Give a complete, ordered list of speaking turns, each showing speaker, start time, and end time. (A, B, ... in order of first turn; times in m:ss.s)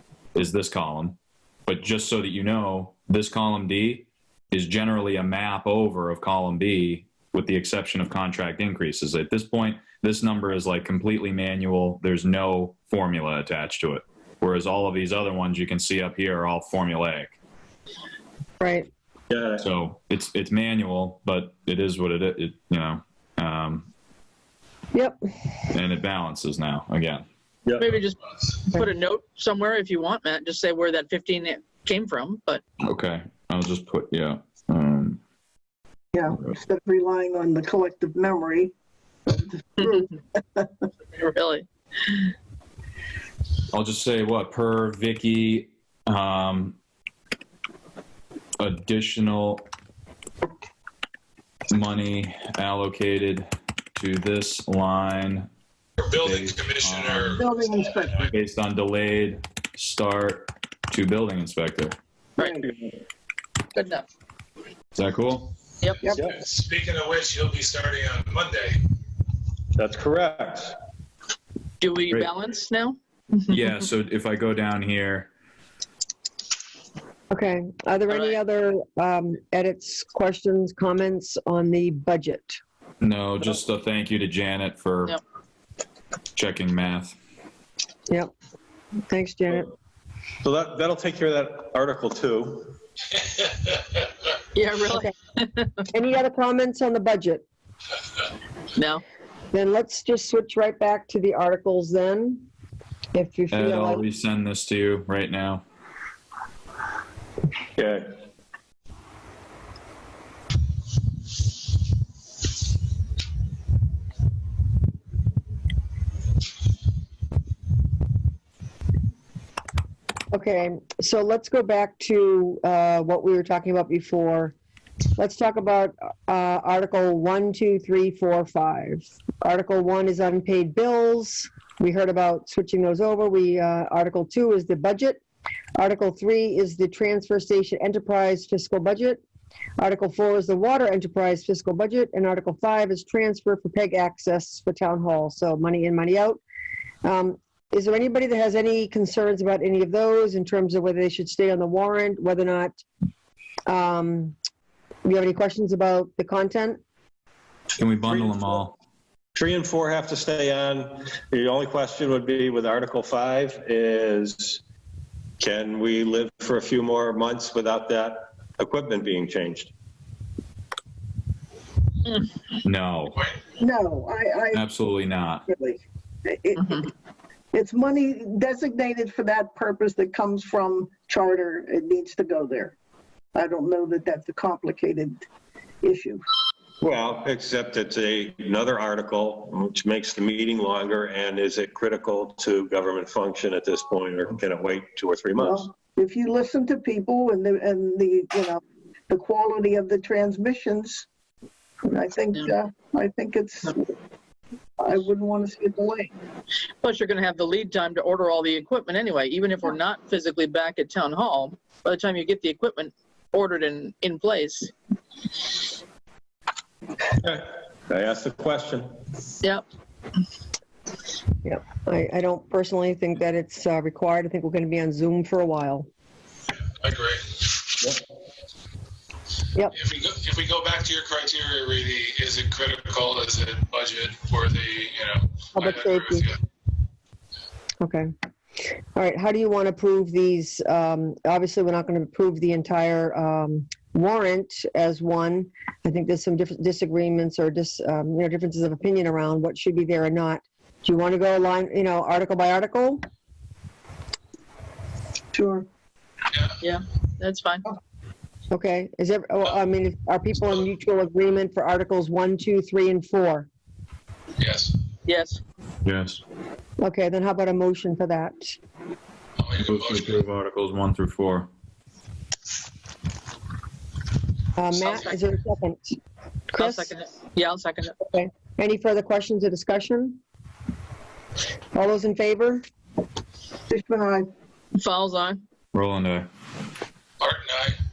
0:00.3-0:17.4 A
0:18.6-0:18.9 B
0:19.3-0:19.6 C
0:19.6-0:23.9 A
0:24.9-0:25.2 B
0:25.7-0:27.2 A
0:27.6-0:28.0 C
0:27.8-0:32.6 D
0:32.8-0:35.2 A
0:36.1-0:38.7 E
0:39.2-0:40.0 E
0:39.8-0:40.1 D
0:41.1-0:42.3 D
0:43.7-0:46.8 A
0:48.6-0:49.7 A
0:51.7-0:55.5 A
0:56.0-0:58.3 F
0:56.2-0:57.4 A
0:57.4-0:58.3 E
0:58.3-1:02.0 A
1:02.4-1:02.6 D
1:03.7-1:04.0 D
1:04.9-1:05.5 A
1:05.8-1:06.1 D
1:06.2-1:08.8 F
1:09.8-1:10.8 C
1:11.8-1:13.6 D
1:13.5-1:15.3 A
1:17.3-1:22.6 B
1:18.1-1:18.4 D
1:23.0-1:25.2 A
1:26.3-1:27.2 A
1:29.1-1:29.7 B
1:30.4-1:32.8 C
1:34.5-1:35.8 D
1:35.9-1:37.4 B
1:38.7-1:39.0 D
1:39.5-1:42.4 B
1:43.1-1:44.0 B
1:43.5-1:45.6 A
1:47.8-1:48.2 C
2:00.3-2:04.5 B
2:05.2-2:15.2 B
2:15.8-2:19.2 B
2:19.8-2:26.4 B
2:27.0-2:32.8 B
2:33.7-2:34.4 B
2:35.0-2:36.8 B
2:37.8-2:38.7 A
2:39.3-2:44.6 C
2:45.4-2:49.7 C
2:52.6-2:53.2 A
2:53.6-2:54.6 E
2:54.5-2:55.4 A
2:55.4-2:56.9 E
2:56.6-2:56.8 D
2:57.5-3:02.8 E
3:03.3-3:05.2 E
3:05.8-3:06.2 E
3:06.8-3:15.8 C
3:15.4-3:21.0 E
3:21.8-3:23.9 E
3:24.8-3:26.1 E
3:26.8-3:34.7 D
3:37.2-3:39.1 C
3:41.4-3:45.9 B
3:46.8-3:47.8 F
3:49.7-3:56.2 F
3:55.5-3:56.3 B
3:57.8-3:58.1 B
3:58.9-4:13.0 B
4:15.3-4:15.7 E
4:16.6-4:17.7 D
4:18.5-4:23.5 B
4:24.4-4:24.8 F
4:25.0-4:25.4 D
4:25.8-4:26.2 A
4:26.8-4:28.6 B
4:29.4-4:30.2 F
4:29.6-4:31.5 A
4:34.6-4:36.0 B
4:36.5-4:36.9 B
4:36.6-4:38.0 D
4:38.1-4:40.2 B
4:41.7-4:42.6 B
4:43.7-4:44.3 E
4:44.7-4:45.4 D
4:45.7-4:46.3 A
4:47.2-4:47.8 F